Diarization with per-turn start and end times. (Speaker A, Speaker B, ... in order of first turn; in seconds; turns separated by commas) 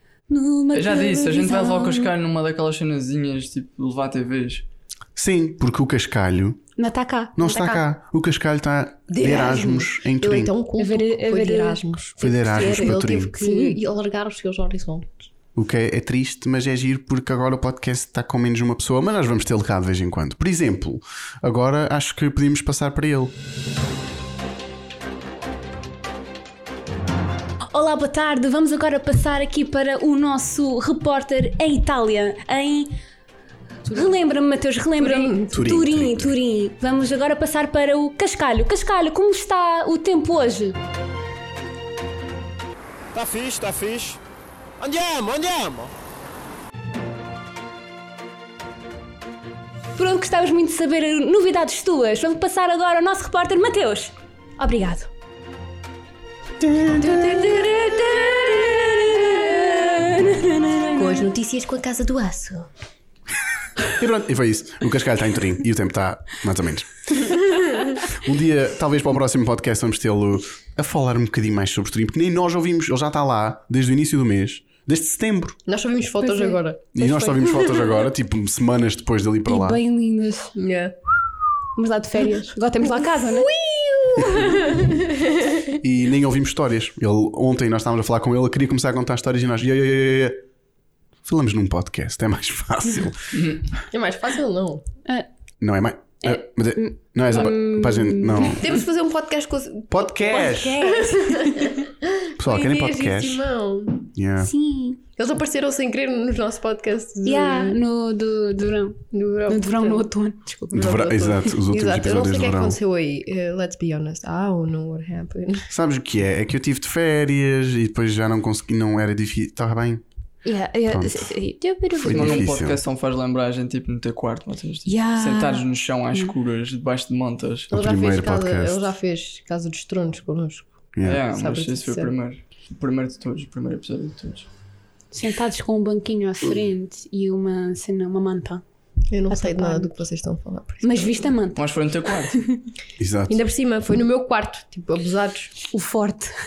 Speaker A: 0.3-2.1, Speaker B: 0.7-4.7, Speaker C: 5.2-6.6, Speaker A: 6.8-7.7, Speaker C: 7.4-10.5, Speaker D: 9.1-15.3, Speaker A: 10.8-13.8, Speaker C: 12.2-13.3, Speaker C: 15.6-23.3, Speaker A: 27.7-32.9, Speaker D: 33.9-34.1, Speaker A: 33.9-40.8, Speaker D: 35.0-35.6, Speaker C: 35.5-36.4, Speaker E: 43.1-44.2, Speaker E: 44.8-45.9, Speaker A: 50.0-55.1, Speaker C: 56.6-57.5, Speaker D: 57.0-60.0, Speaker A: 58.0-61.3, Speaker D: 61.0-62.7, Speaker C: 64.0-67.4, Speaker C: 68.1-75.6, Speaker D: 75.7-78.0, Speaker A: 76.2-76.6, Speaker C: 77.0-79.8, Speaker A: 79.5-80.5, Speaker D: 80.6-81.0, Speaker A: 81.8-83.5, Speaker D: 82.9-85.8, Speaker C: 85.8-90.4, Speaker C: 91.2-93.3, Speaker B: 93.3-93.7, Speaker D: 93.9-94.8, Speaker C: 95.6-98.8, Speaker A: 96.2-98.7, Speaker D: 98.5-104.1, Speaker C: 99.9-100.9, Speaker A: 100.3-101.8, Speaker C: 102.4-103.5, Speaker C: 104.1-104.5, Speaker A: 104.4-105.0, Speaker D: 105.2-107.8, Speaker A: 107.2-110.9, Speaker D: 109.1-110.0, Speaker D: 110.7-115.7, Speaker C: 110.7-112.8, Speaker C: 115.7-120.0, Speaker A: 120.5-122.5, Speaker C: 120.9-121.3, Speaker C: 122.0-122.8, Speaker B: 122.1-127.7, Speaker A: 124.9-126.3, Speaker C: 127.7-128.8, Speaker D: 127.7-130.8, Speaker C: 130.9-131.2, Speaker B: 131.0-134.5, Speaker D: 131.3-132.1, Speaker A: 135.1-138.6, Speaker D: 139.1-141.3, Speaker A: 139.3-139.9, Speaker A: 140.8-141.7, Speaker B: 141.6-142.4, Speaker A: 142.3-142.6, Speaker C: 143.0-143.4, Speaker D: 143.3-145.6, Speaker A: 145.7-146.3